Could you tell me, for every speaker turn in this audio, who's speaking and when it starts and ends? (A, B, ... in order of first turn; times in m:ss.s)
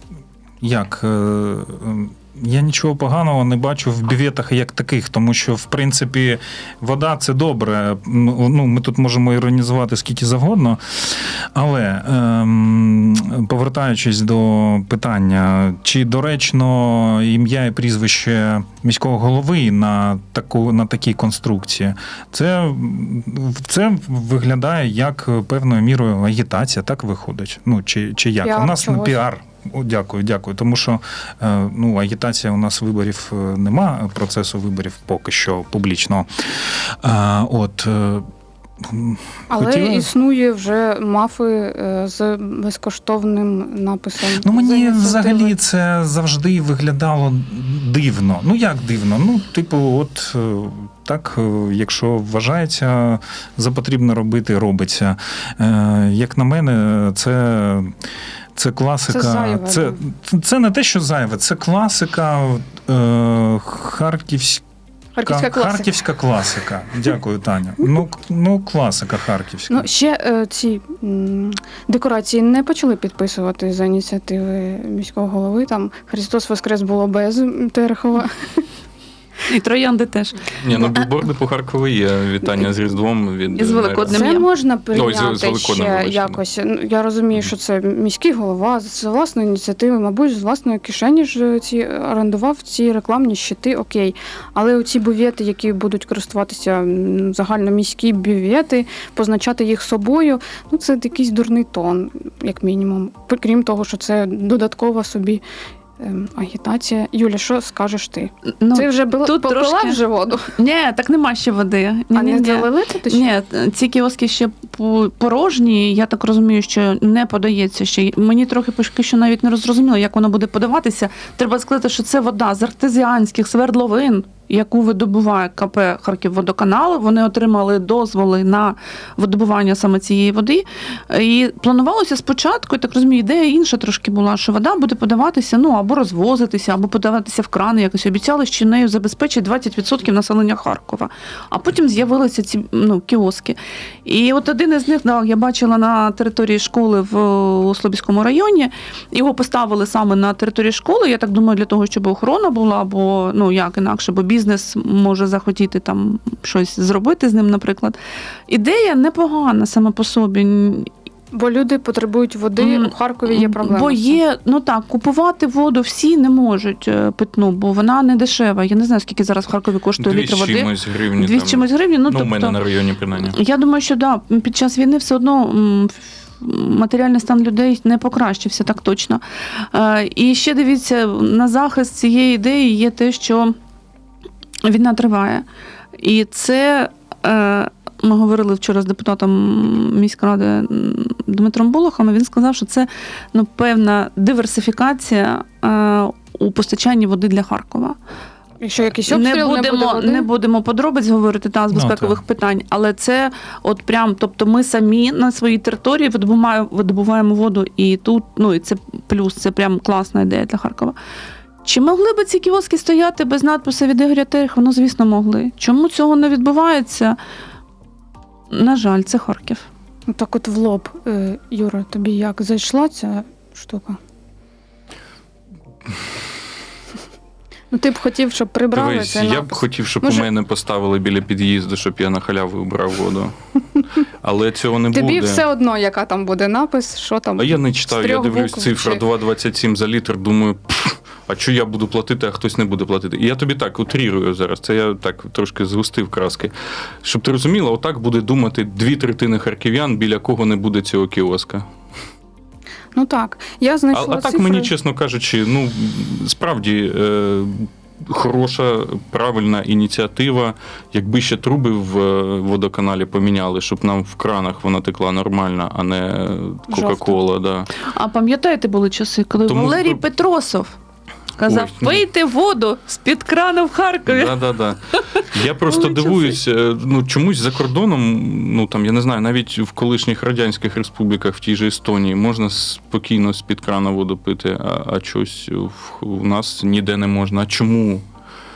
0:00.6-0:38.3 A
0:28.4-0:29.2 B
0:38.8-0:40.1 A
0:39.5-0:45.5 B
0:44.4-0:58.0 A
0:58.6-1:04.6 A
0:59.1-1:00.0 B
1:05.2-1:05.9 B
1:05.2-1:09.9 A
1:09.7-1:18.7 B
1:19.5-1:20.8 C
1:20.5-1:24.4 D
1:23.6-1:24.4 C
1:24.1-1:45.4 B
1:24.9-1:26.4 D
1:46.0-1:50.5 B
1:48.6-1:50.0 C
1:50.5-2:38.0 C
1:52.2-1:53.3 B
2:38.5-2:40.9 C
2:41.3-2:44.2 B
2:42.6-2:52.6 C
2:50.0-2:53.4 D
2:53.3-3:03.6 C
3:04.6-3:05.5 C
3:06.0-3:18.0 C
3:18.6-3:20.3 B
3:19.1-3:31.0 C
3:21.7-3:22.2 A
3:31.6-3:37.2 C
3:38.5-3:39.7 C
3:40.1-3:44.0 B
3:47.7-3:50.3 B
3:48.7-3:53.3 D
3:54.2-3:55.4 D
3:54.9-3:59.0 B
3:57.4-4:11.7 D
4:13.0-4:14.7 B
4:13.9-4:27.7 D
4:26.7-4:27.2 B
4:27.8-4:30.8 C
4:29.4-4:30.0 D
4:31.4-4:34.3 C
4:31.5-4:32.0 D
4:34.1-4:48.0 D
4:35.7-4:36.4 C